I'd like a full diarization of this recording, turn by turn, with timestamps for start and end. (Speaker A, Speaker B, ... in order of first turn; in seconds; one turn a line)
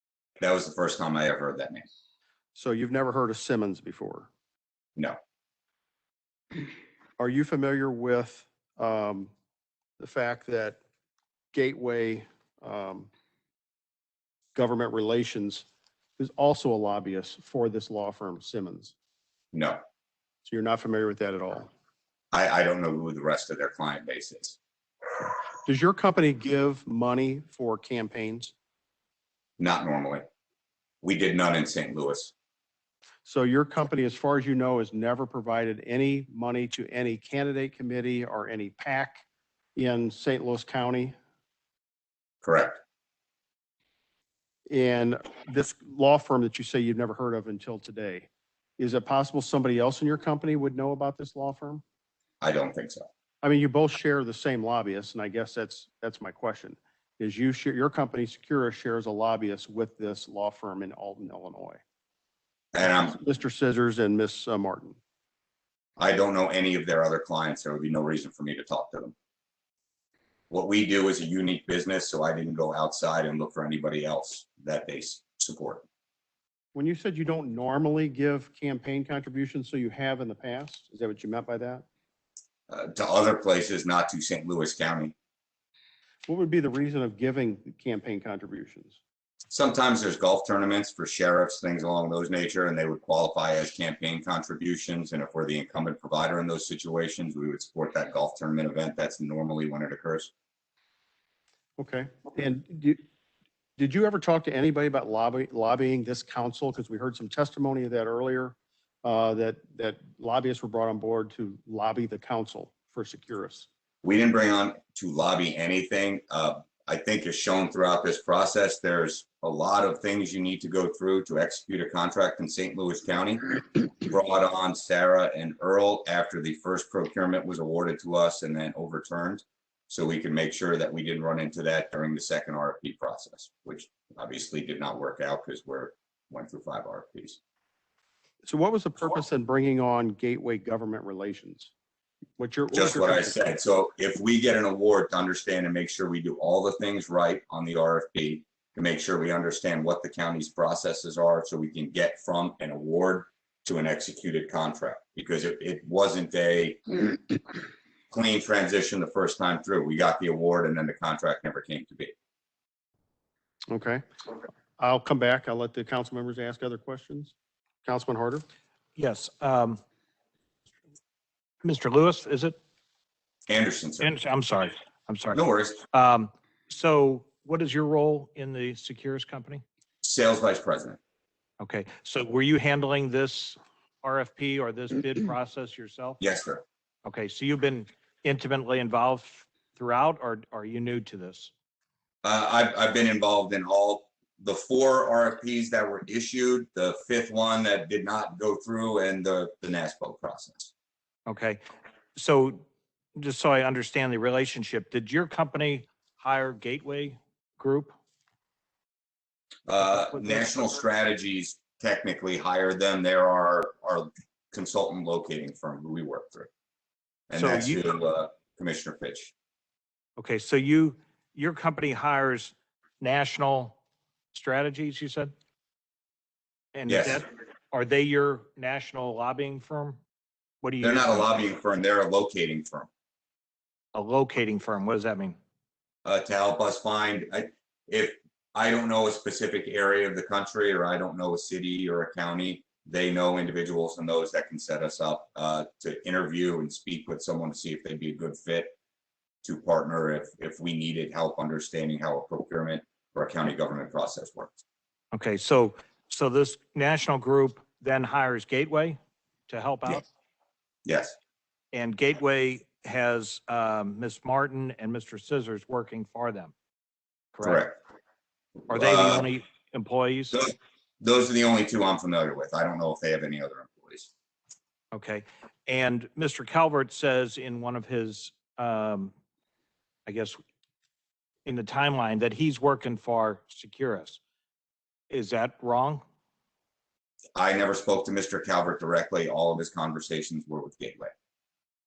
Speaker A: 0.4-1.9
Speaker B: 2.5-4.3
Speaker B: 7.2-9.3
Speaker B: 10.0-10.8
Speaker B: 11.5-13.1
Speaker B: 14.5-15.7
Speaker B: 16.2-18.9
Speaker A: 19.5-19.8
Speaker B: 20.4-21.7
Speaker A: 22.3-24.6
Speaker B: 25.6-28.5
Speaker A: 29.6-30.2
Speaker A: 31.0-32.3
Speaker B: 33.2-39.2
Speaker B: 39.8-41.1
Speaker A: 42.4-42.8
Speaker B: 44.7-51.8
Speaker A: 52.4-53.1
Speaker B: 53.4-61.8
Speaker A: 62.7-63.2
Speaker B: 62.8-65.0
Speaker A: 66.0-69.1
Speaker A: 70.5-75.8
Speaker B: 76.7-81.8
Speaker A: 82.7-85.1
Speaker B: 86.3-89.0
Speaker A: 89.5-100.3
Speaker B: 101.8-103.0
Speaker B: 103.8-113.7
Speaker A: 114.0-137.4
Speaker B: 138.4-141.7
Speaker B: 142.4-143.4
Speaker A: 142.7-157.3
Speaker A: 158.1-162.1
Speaker B: 163.7-164.0
Speaker B: 164.8-167.3
Speaker B: 167.8-168.4
Speaker C: 169.0-169.8
Speaker C: 171.6-172.6
Speaker A: 173.5-174.1
Speaker C: 174.0-175.4
Speaker A: 175.3-175.8
Speaker C: 175.9-179.6
Speaker A: 180.0-181.0
Speaker C: 181.6-186.2
Speaker A: 186.2-186.6
Speaker C: 187.0-191.5
Speaker A: 192.2-200.7
Speaker C: 201.3-201.6
Speaker C: 202.2-202.6
Speaker C: 203.2-208.0
Speaker A: 209.7-216.5
Speaker C: 209.8-210.5
Speaker A: 217.3-219.3
Speaker C: 217.3-217.8
Speaker C: 220.2-223.8
Speaker C: 224.3-225.3
Speaker C: 226.8-230.0
Speaker A: 226.9-227.2
Speaker C: 230.6-231.4
Speaker A: 230.8-232.9
Speaker C: 233.9-235.4
Speaker A: 236.0-248.8
Speaker A: 249.4-254.6
Speaker C: 255.1-260.0
Speaker A: 260.8-261.1
Speaker C: 261.7-266.5
Speaker C: 267.3-267.6
Speaker A: 267.4-267.8
Speaker A: 268.7-269.3
Speaker C: 268.7-270.4
Speaker A: 270.3-274.1
Speaker C: 274.9-279.1
Speaker C: 280.1-280.4
Speaker C: 281.4-284.2
Speaker C: 285.1-286.0
Speaker A: 287.3-291.1